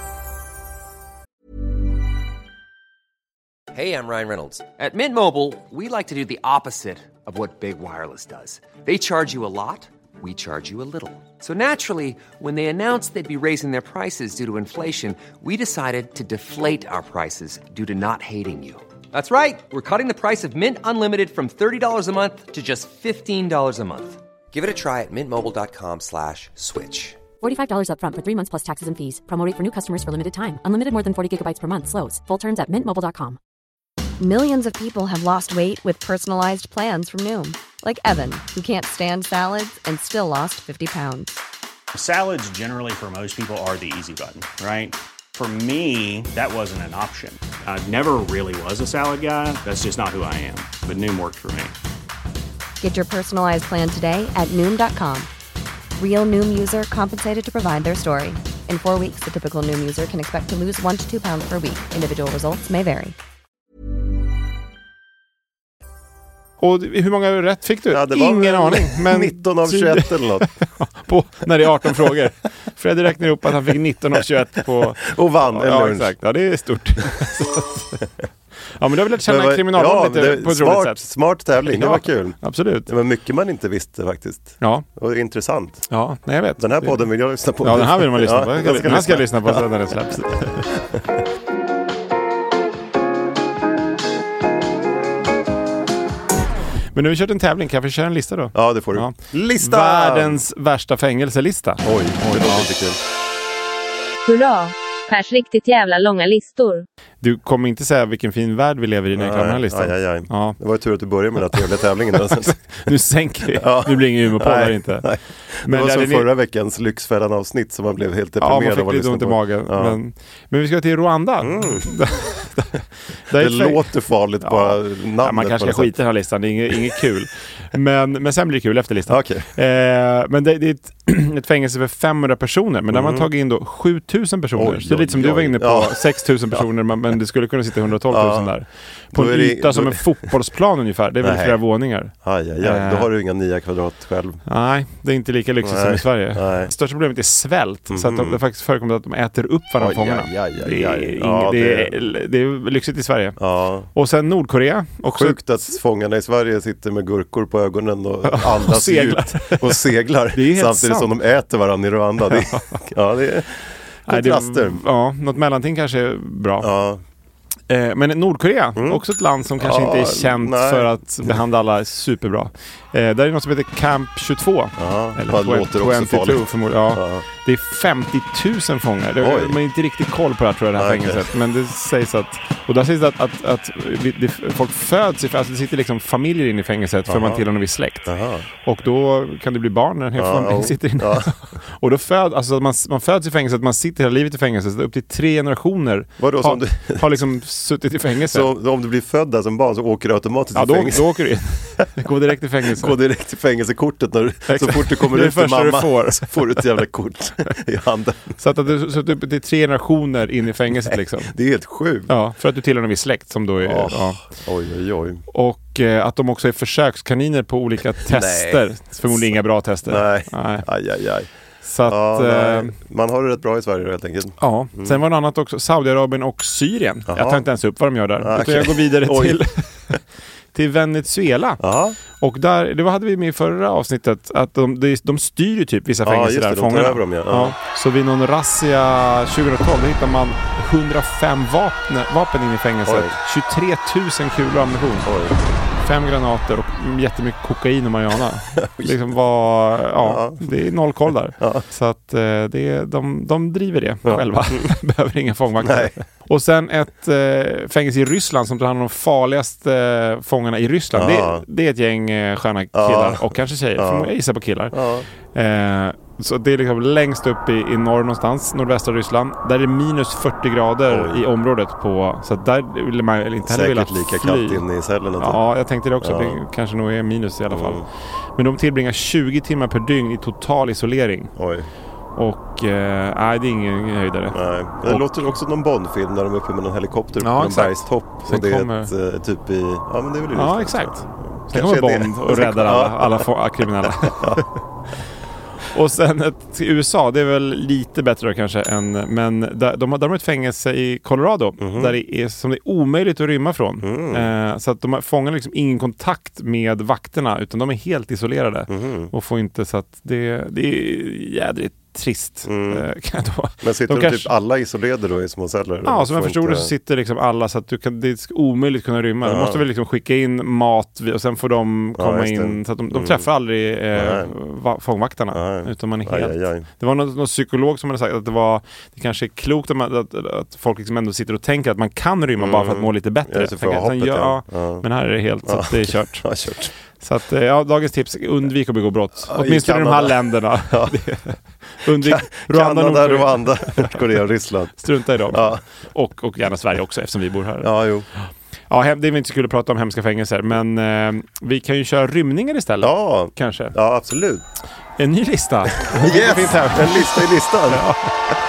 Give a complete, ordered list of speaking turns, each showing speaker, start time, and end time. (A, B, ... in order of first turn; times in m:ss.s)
0:03.7-0:27.2 A
0:27.4-0:33.4 B
0:34.2-0:41.4 C
0:41.9-0:51.7 D
0:52.8-0:55.3 C
0:56.0-1:03.1 C
1:06.6-1:18.0 E
1:07.9-1:10.5 F
1:15.0-1:16.1 F
1:18.8-1:21.1 E
1:19.2-1:25.9 F
1:21.6-1:22.9 E
1:24.6-1:24.8 E
1:25.9-1:30.6 E
1:26.6-1:29.7 F
1:36.9-1:42.7 E
1:38.5-1:40.4 F
1:41.8-1:43.0 F
1:44.2-1:46.8 G
1:47.2-1:50.6 E
1:49.1-1:52.6 F
1:51.4-1:55.1 E
1:53.6-2:00.0 F
1:55.6-1:56.3 E
1:58.4-2:03.9 E
2:01.4-2:02.0 F
2:03.3-2:05.9 F
2:04.4-2:23.1 E
2:09.1-2:09.5 F
2:12.9-2:13.3 F
2:14.6-2:16.6 F
2:18.1-2:18.5 F
2:19.1-2:20.3 F
2:21.2-2:21.6 F
2:22.2-2:24.4 F
2:24.4-2:35.4 E
2:25.6-2:26.7 F
2:27.9-2:28.4 F
2:29.8-2:31.9 F
2:33.4-2:33.9 F
2:35.1-2:44.8 F
2:38.2-2:41.1 E
2:42.2-2:42.8 E
2:44.1-2:46.7 E
2:46.6-2:47.0 F
2:47.7-3:18.5 E
2:48.8-2:49.0 F
2:49.6-2:51.4 F
2:54.8-2:57.2 F
2:59.2-2:59.6 F
3:00.8-3:01.3 F
3:07.1-3:07.4 F
3:08.0-3:08.5 F
3:10.2-3:11.3 F
3:16.2-3:17.2 F
3:18.3-3:21.2 F
3:20.5-3:22.9 E
3:22.7-3:28.4 F
3:24.5-3:26.7 E
3:28.4-3:31.3 E
3:31.3-3:32.1 F
3:32.1-3:34.2 E
3:33.6-3:35.2 F
3:35.3-3:40.7 E
3:38.0-3:41.3 F
3:41.6-3:42.7 E
3:41.8-3:45.0 F
3:44.4-3:50.0 E
3:47.1-3:47.4 F
3:48.2-3:49.4 F
3:50.5-4:05.1 E
3:51.6-3:52.0 F
3:56.0-3:57.6 F
4:02.8-4:03.2 F
4:05.0-4:05.4 F
4:05.8-4:24.8 E
4:08.6-4:09.1 F
4:10.0-4:10.5 F
4:11.4-4:11.6 F
4:14.0-4:14.7 F
4:15.6-4:15.9 F
4:20.9-4:21.4 F
4:22.7-4:24.1 F
4:24.7-4:25.1 F
4:25.3-4:34.6 E
4:30.9-4:31.2 F
4:33.4-4:35.4 F
4:35.2-4:37.8 E
4:36.0-4:36.4 F
4:37.5-4:37.8 F
4:38.4-4:41.3 E
4:41.4-4:41.7 F
4:42.2-4:45.3 E
4:44.3-4:53.3 F
4:47.2-4:48.9 E
4:50.3-4:54.5 E
4:54.0-4:54.4 F
4:55.7-5:14.3 E
5:01.6-5:01.9 F
5:03.8-5:04.3 F
5:08.7-5:09.1 F
5:12.4-5:12.8 F
5:13.6-5:16.7 F
5:15.8-5:36.3 E
5:19.2-5:19.6 F
5:22.0-5:23.2 F
5:23.9-5:24.3 F
5:25.3-5:26.7 F
5:32.4-5:34.8 F
5:35.4-5:36.7 F
5:37.0-5:44.1 E
5:39.2-5:41.0 F
5:41.9-5:45.6 F
5:44.8-5:47.7 E
5:47.6-5:48.1 F
5:48.7-5:53.7 E
5:52.8-5:54.4 F
5:55.0-5:58.1 E
5:55.8-5:57.8 F